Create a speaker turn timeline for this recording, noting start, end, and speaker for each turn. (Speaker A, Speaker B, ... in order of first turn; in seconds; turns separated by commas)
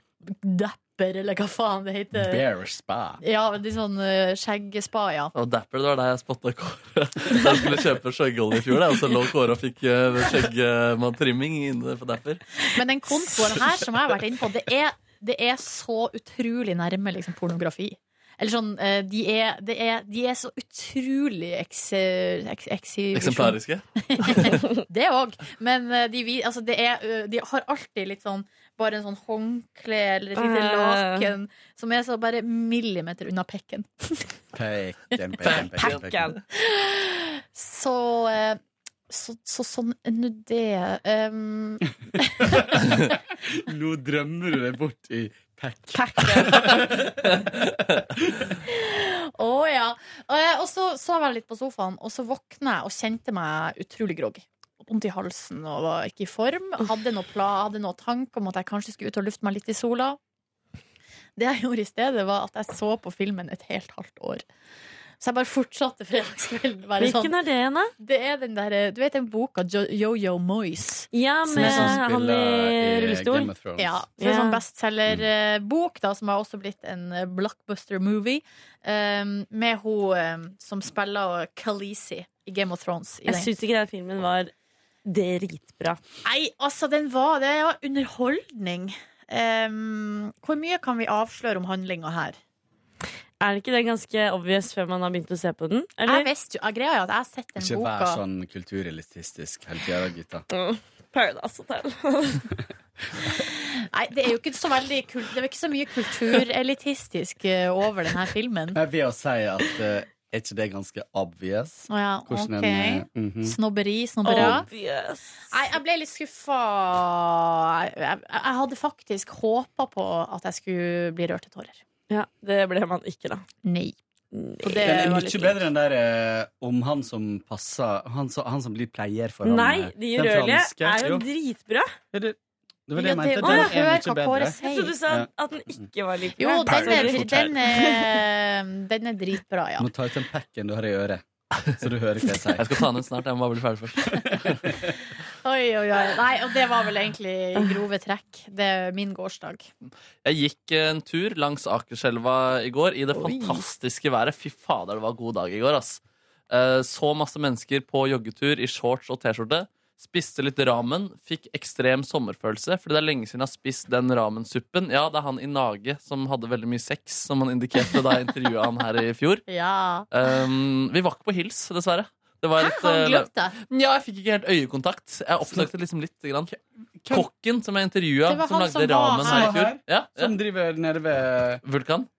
Speaker A: 0.2-2.4, Speaker B: 2.1-3.2, Speaker A: 3.2-5.3, Speaker C: 5.3-12.4, Speaker A: 12.7-34.3, Speaker C: 23.1-24.6, Speaker D: 30.4-31.3, Speaker B: 34.5-36.2, Speaker C: 35.4-36.4, Speaker D: 35.8-36.4, Speaker A: 36.5-42.8, Speaker B: 42.5-47.2, Speaker A: 45.9-46.8, Speaker A: 48.7-60.2, Speaker A: 61.4-64.4, Speaker A: 65.2-67.3, Speaker D: 67.0-67.9, Speaker A: 68.0-72.0, Speaker D: 71.1-73.5, Speaker B: 71.5-74.0, Speaker A: 73.8-83.5, Speaker D: 74.2-74.6, Speaker D: 83.3-84.5, Speaker D: 85.0-86.0, Speaker A: 86.2-92.4, Speaker D: 93.4-96.3, Speaker A: 96.1-98.2, Speaker B: 97.6-100.5, Speaker D: 100.5-102.5, Speaker A: 103.7-108.8, Speaker B: 108.8-113.6, Speaker A: 111.9-114.7, Speaker D: 114.2-115.5, Speaker B: 114.4-114.6, Speaker A: 115.5-121.8, Speaker D: 122.1-123.5, Speaker A: 123.6-124.0, Speaker D: 124.3-124.7, Speaker A: 124.6-125.7, Speaker B: 124.8-131.2, Speaker D: 129.4-131.9, Speaker B: 132.9-134.6, Speaker A: 133.0-135.0, Speaker D: 133.4-133.8, Speaker D: 134.6-138.2, Speaker B: 135.1-135.9, Speaker A: 136.4-139.9, Speaker C: 136.7-137.5, Speaker B: 139.8-142.7, Speaker C: 142.6-144.5, Speaker B: 144.0-144.8, Speaker A: 145.4-149.7, Speaker C: 150.2-169.4, Speaker A: 153.2-153.6, Speaker A: 169.5-170.1, Speaker C: 170.1-176.5, Speaker A: 172.6-173.6, Speaker C: 177.1-180.3, Speaker A: 178.3-179.7, Speaker B: 179.2-181.6, Speaker C: 181.6-182.1